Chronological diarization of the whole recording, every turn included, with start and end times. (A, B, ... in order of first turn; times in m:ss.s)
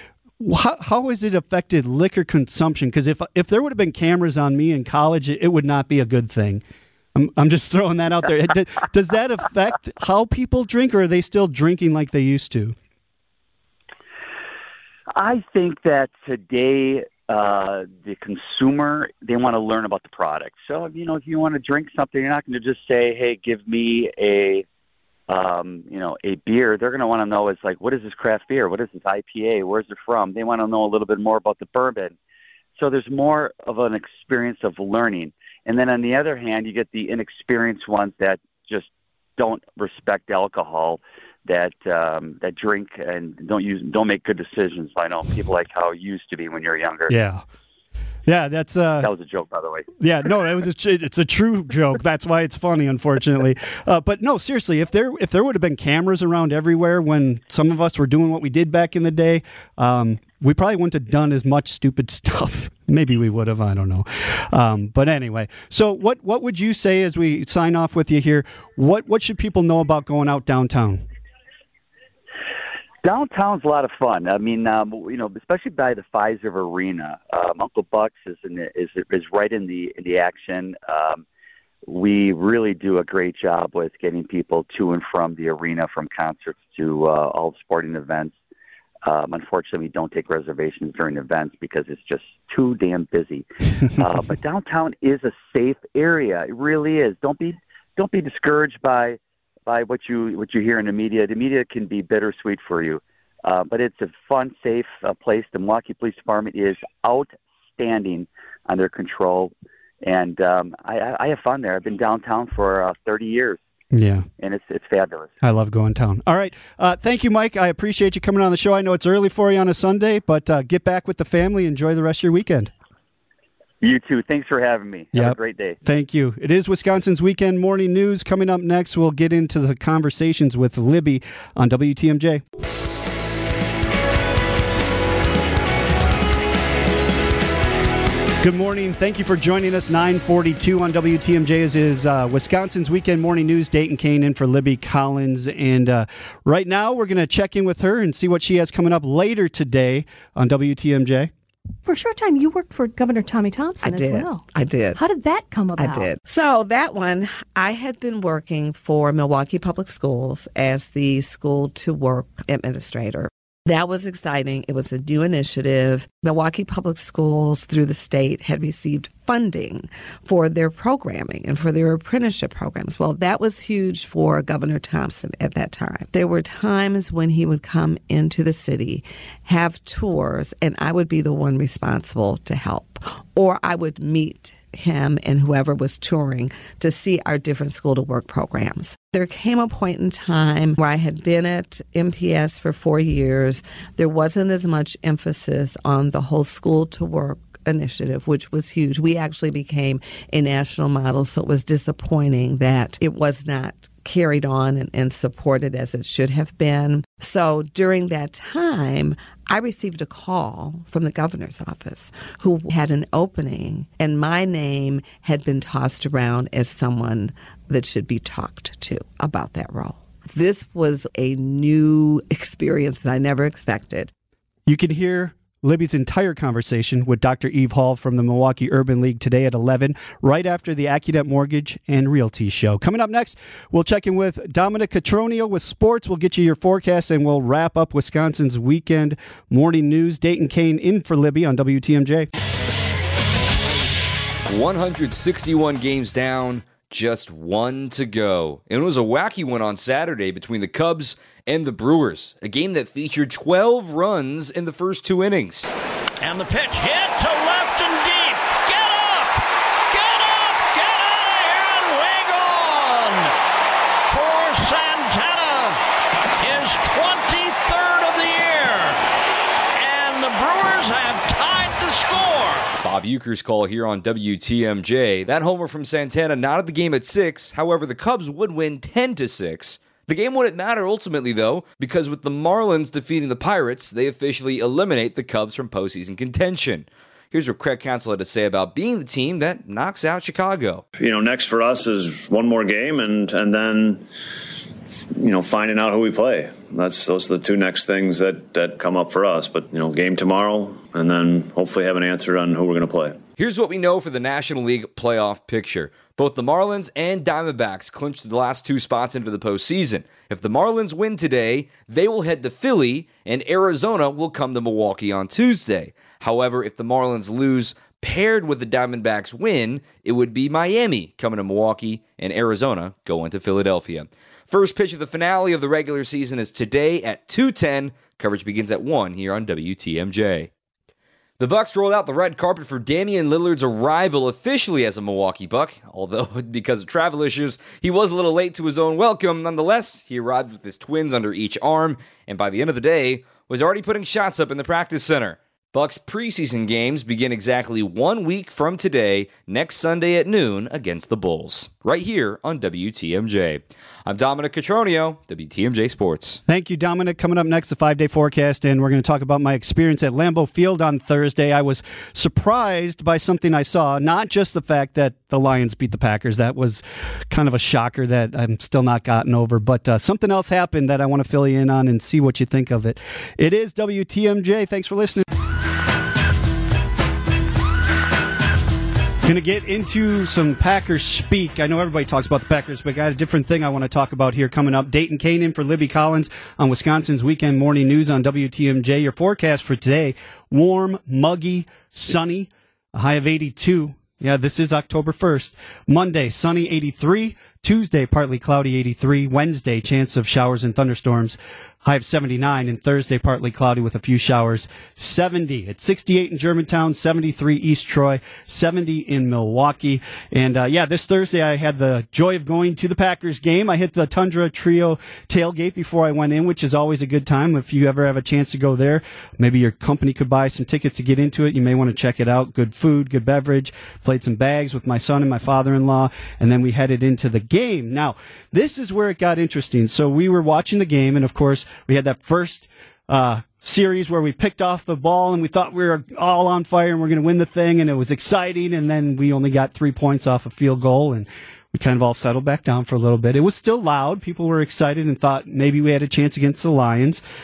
0:00.4-0:06.6 A
0:07.1-0:12.7 A
0:15.2-0:24.6 B
0:25.3-0:32.1 B
0:32.8-0:47.1 B
0:47.1-0:47.4 A
0:48.3-0:49.1 A
0:49.0-0:49.9 B
0:50.0-1:11.0 A
1:13.0-1:21.2 B
1:21.9-1:28.4 B
1:29.1-1:53.6 B
1:53.9-1:54.3 A
1:54.4-1:55.3 B
1:55.4-2:02.7 A
2:03.8-2:05.8 B
2:05.1-2:12.4 A
2:18.4-2:31.3 A
2:31.9-2:36.2 C
2:33.8-2:35.0 D
2:35.8-3:44.1 D
3:44.7-4:02.3 A
4:04.5-4:15.7 E
4:16.2-4:19.4 F
4:19.9-4:23.3 F
4:24.1-4:25.8 F
4:26.4-4:29.0 F
4:29.8-4:32.7 F
4:32.8-4:50.8 E
4:51.0-4:54.1 G
4:55.2-5:03.2 G
5:03.4-5:30.5 E
5:31.4-5:56.4 E
5:56.5-6:15.2 A
6:19.2-7:27.2 A